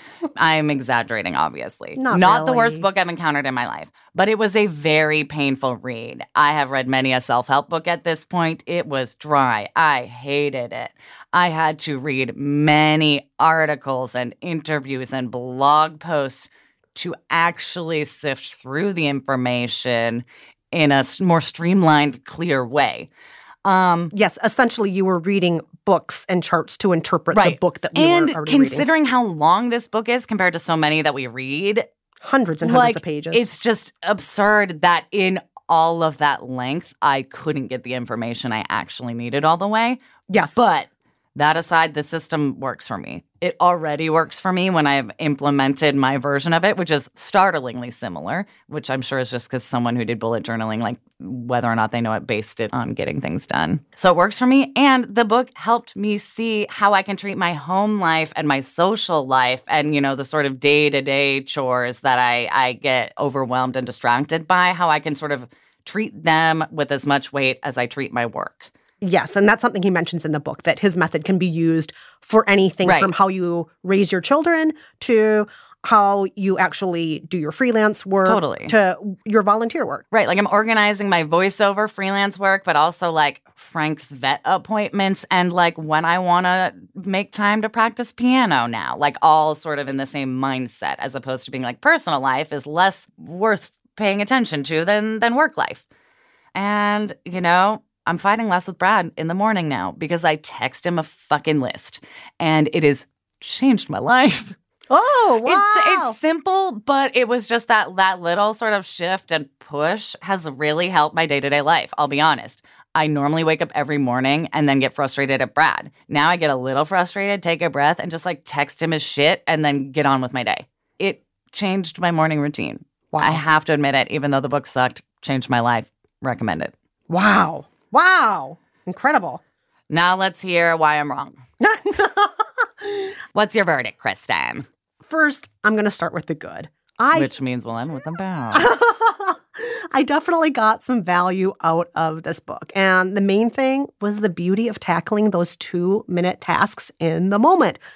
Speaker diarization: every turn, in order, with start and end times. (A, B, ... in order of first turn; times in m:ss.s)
0:00.4-0:23.1 A
0:02.0-0:02.9 B
0:23.6-0:24.1 A
0:24.1-0:28.9 B
0:27.3-0:31.9 A
0:32.2-0:33.5 B
0:32.6-0:40.0 A
0:40.3-0:40.6 B
0:40.5-1:08.7 A
1:09.0-1:20.0 B
1:12.8-1:13.1 A
1:18.2-1:18.7 A
1:20.1-1:35.8 A
1:36.6-1:44.6 A
1:44.9-1:46.2 B
1:45.5-2:06.7 A
2:03.1-2:03.4 B
2:07.1-2:09.4 B
2:09.9-2:11.4 A
2:11.6-2:12.9 B
2:13.3-2:14.7 A
2:15.0-2:17.3 B
2:17.1-2:18.8 A
2:18.5-2:27.8 B